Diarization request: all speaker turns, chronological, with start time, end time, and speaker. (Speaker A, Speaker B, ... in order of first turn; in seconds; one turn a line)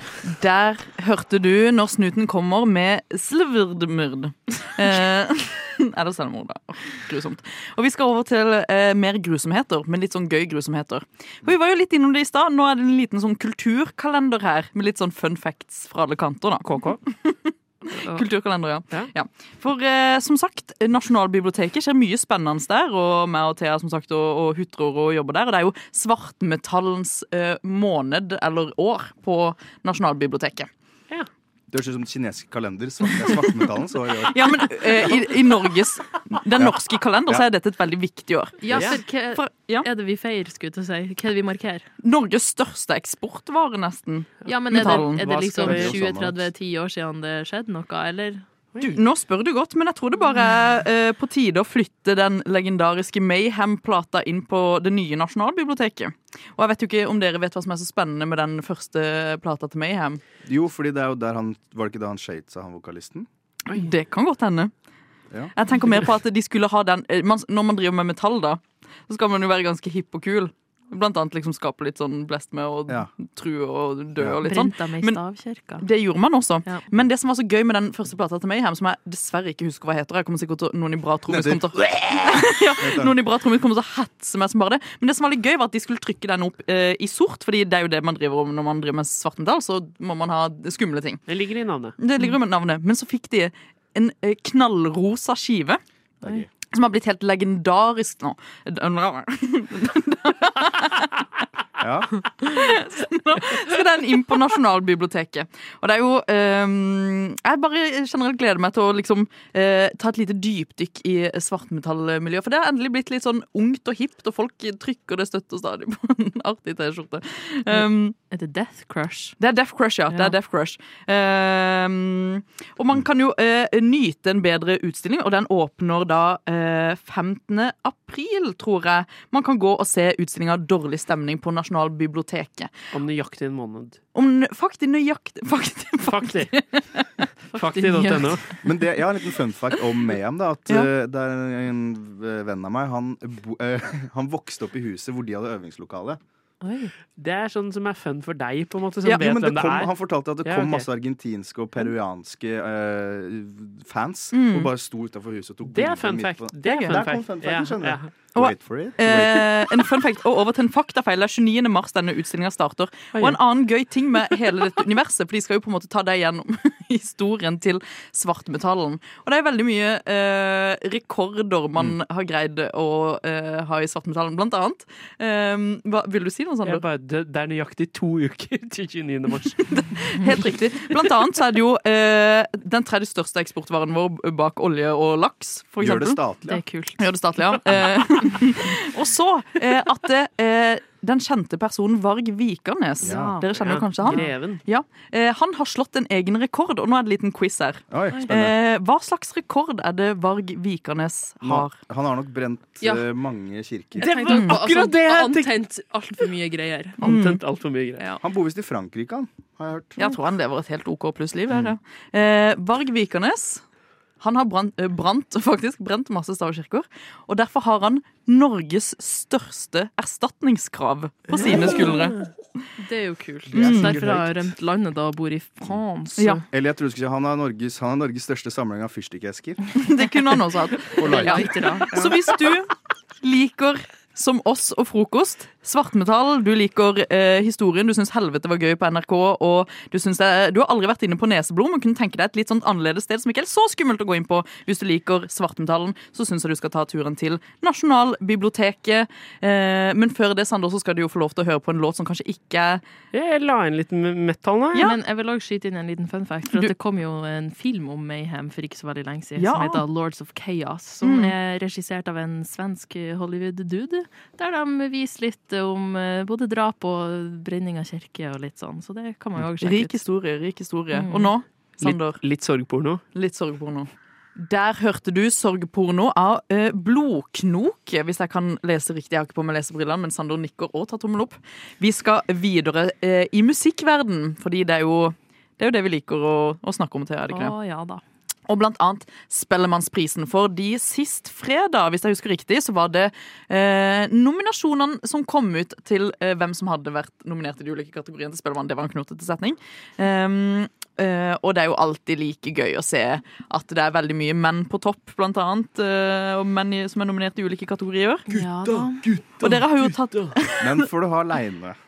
Speaker A: 0.2-30.7
Speaker B: 16.6-17.0
Speaker C: 31.7-35.3
Speaker A: 34.3-39.9
Speaker C: 36.5-37.5
Speaker D: 38.6-41.9
Speaker A: 42.0-45.2
Speaker D: 44.5-48.4
Speaker B: 44.7-46.0
Speaker C: 45.6-46.5
Speaker A: 48.8-60.2
Speaker C: 60.5-63.3
Speaker A: 63.7-64.7
Speaker A: 65.6-75.2
Speaker C: 74.2-74.4
Speaker D: 74.5-75.8
Speaker A: 75.8-91.2
Speaker C: 81.3-83.2
Speaker B: 91.3-92.0
Speaker A: 92.0-95.8
Speaker C: 96.2-96.5
Speaker A: 96.7-101.2
Speaker C: 101.8-102.2
Speaker A: 102.4-118.2
Speaker D: 117.7-119.4
Speaker A: 119.4-132.7
Speaker D: 120.1-120.4
Speaker B: 132.9-134.0
Speaker A: 134.1-136.8
Speaker B: 136.1-136.6
Speaker D: 137.5-138.6
Speaker B: 137.5-138.5
Speaker C: 138.6-146.2
Speaker D: 146.6-146.9
Speaker B: 147.2-149.9
Speaker A: 149.0-149.3
Speaker C: 149.2-159.9
Speaker B: 150.4-150.9
Speaker A: 154.3-154.7
Speaker B: 155.7-158.1
Speaker A: 156.7-157.0
Speaker A: 158.3-176.8
Speaker B: 176.7-179.7
Speaker A: 179.7-186.2
Speaker C: 185.8-186.6
Speaker D: 186.5-187.1
Speaker A: 187.0-201.8
Speaker C: 193.0-193.4
Speaker D: 193.0-193.5
Speaker B: 193.6-194.6
Speaker C: 197.9-198.6
Speaker C: 201.4-204.1
Speaker D: 204.0-207.0
Speaker B: 204.0-205.6
Speaker A: 204.3-204.6
Speaker A: 207.0-207.4
Speaker B: 207.0-208.0
Speaker C: 208.2-210.0
Speaker A: 210.0-213.6
Speaker A: 214.2-222.2
Speaker D: 222.8-226.4
Speaker C: 223.5-224.5
Speaker A: 223.5-224.0
Speaker C: 226.5-229.7
Speaker A: 229.8-252.8
Speaker C: 231.0-232.1
Speaker D: 231.1-231.9
Speaker B: 253.1-254.9
Speaker D: 254.8-270.1
Speaker A: 259.4-259.8
Speaker A: 261.0-261.3
Speaker A: 269.6-272.2
Speaker D: 270.9-271.3
Speaker B: 271.8-273.0
Speaker A: 273.1-287.6
Speaker D: 287.3-288.0
Speaker A: 288.5-308.4
Speaker D: 308.3-309.1
Speaker A: 309.4-310.9
Speaker B: 309.4-309.9
Speaker C: 310.6-311.8